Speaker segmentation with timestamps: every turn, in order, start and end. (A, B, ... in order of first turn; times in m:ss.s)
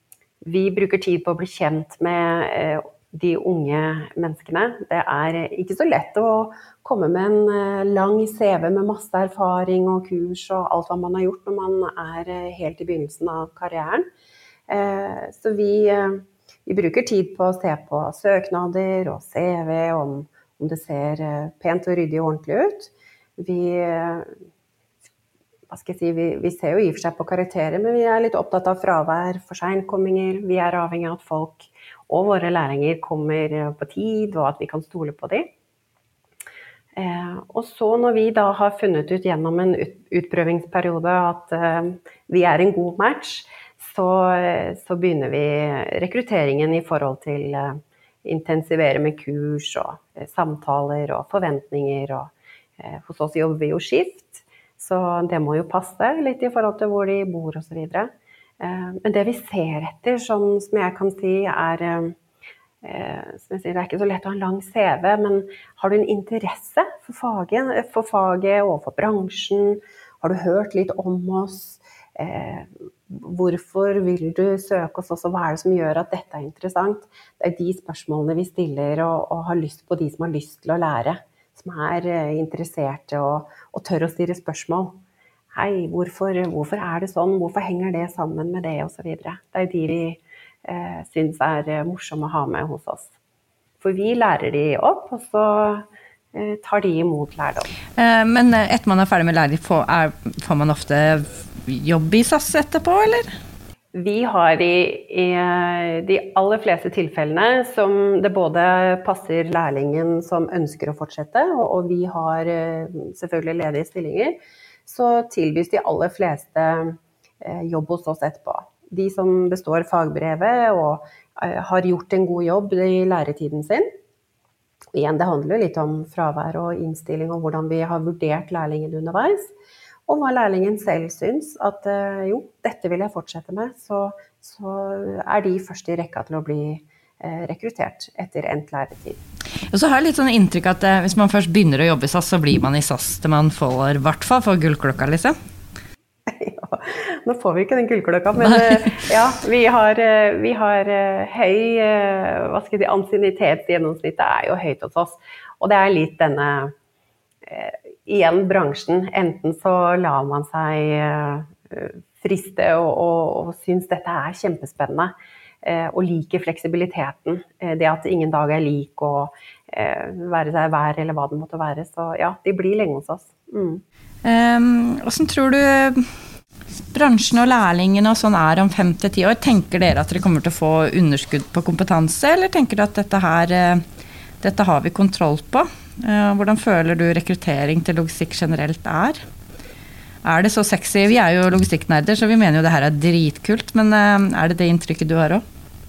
0:00.4-0:14.1 A
0:14.7-0:24.3 A
0:25.7-0:35.5 A
0:36.9-1:02.2 A
1:02.8-1:25.0 A
1:25.5-1:33.1 A
1:33.8-1:37.7 A
1:38.0-1:43.3 B
1:43.9-2:03.9 A
2:04.9-2:09.5 A
2:10.1-2:19.2 A
2:19.7-2:25.3 B
2:26.3-2:36.7 A
2:28.5-2:28.8 B
2:37.4-2:53.8 A
2:54.2-2:56.1 B
2:56.9-3:03.8 B
3:04.4-3:09.2 B
3:10.2-3:15.4 B